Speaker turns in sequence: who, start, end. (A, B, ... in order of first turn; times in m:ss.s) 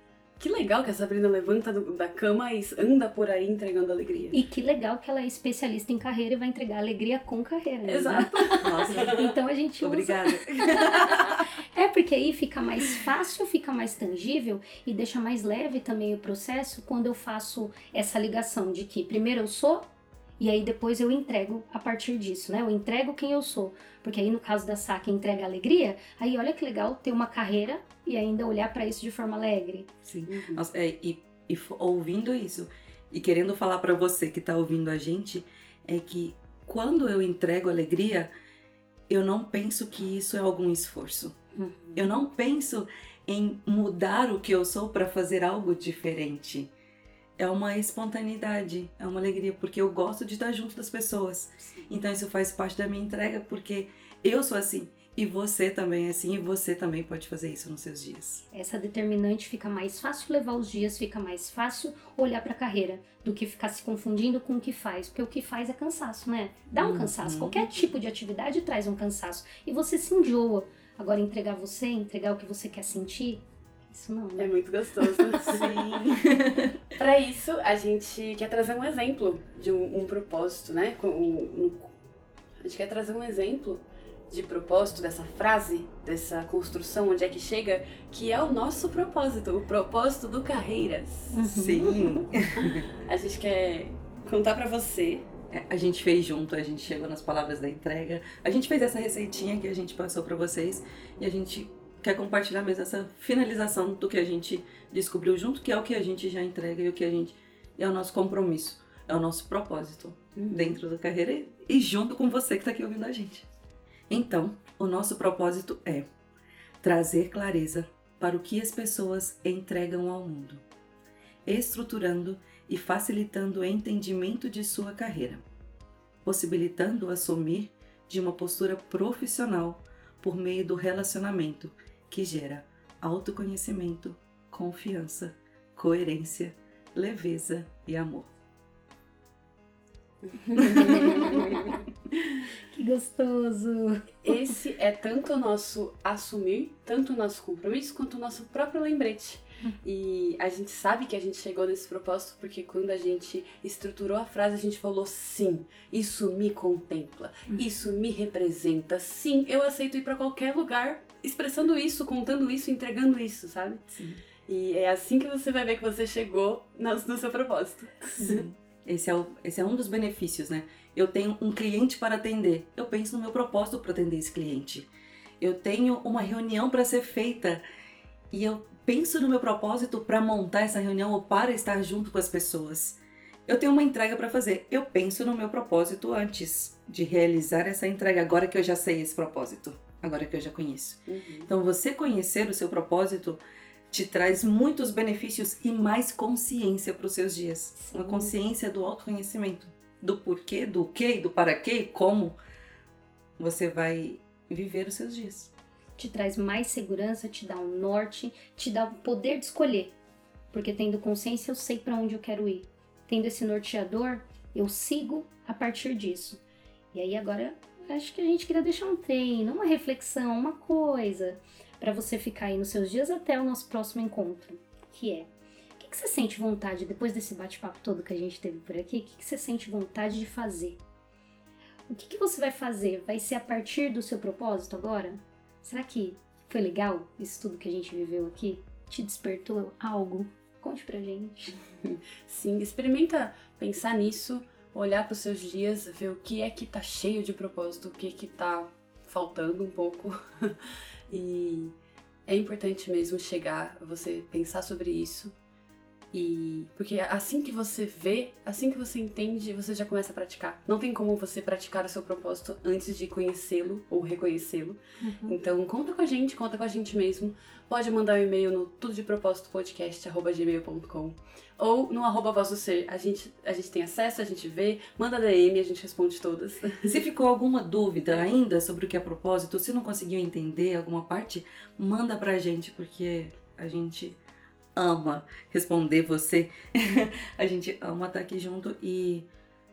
0:00.4-0:04.4 A
0:04.3-0:29.9 B
0:07.9-0:09.3 A
0:08.6-0:09.2 C
0:09.8-0:11.4 C
0:30.0-0:38.3 C
0:30.3-0:30.6 A
0:39.1-0:41.4 C
0:41.5-0:42.1 B
0:42.0-0:46.7 C
0:47.4-0:58.4 C
0:51.6-0:51.9 B
0:58.5-1:14.5 B
1:06.8-1:07.9 C
1:14.4-1:15.8 A
1:15.4-1:16.8 C
1:16.9-1:21.9 A
1:22.6-1:31.4 A
1:31.3-1:32.2 B
1:31.4-1:32.9 C
1:32.6-1:35.2 A
1:35.5-1:53.5 C
1:50.4-1:50.8 A
1:54.1-1:56.1 C
1:56.8-2:00.6 C
2:01.4-2:05.4 C
2:06.2-2:18.3 C
2:20.2-2:21.6 A
2:20.4-2:21.8 B
2:20.6-2:21.2 C
2:22.7-2:24.5 B
2:24.2-2:43.8 A
2:43.9-2:44.2 C
2:44.5-2:48.4 A
2:48.2-2:54.9 C
2:55.4-2:57.6 C
2:58.3-3:13.4 C
3:11.1-3:11.5 A
3:13.9-3:22.4 C
3:17.8-3:18.3 B
3:23.4-3:25.5 C
3:26.0-3:29.9 B
3:30.5-3:36.4 B
3:36.9-3:50.8 B
3:51.9-4:01.6 B
4:01.8-4:11.7 A
4:12.3-4:15.3 A
4:16.1-4:37.0 A
4:25.0-4:25.4 B
4:36.8-4:44.2 C
4:44.7-4:49.3 C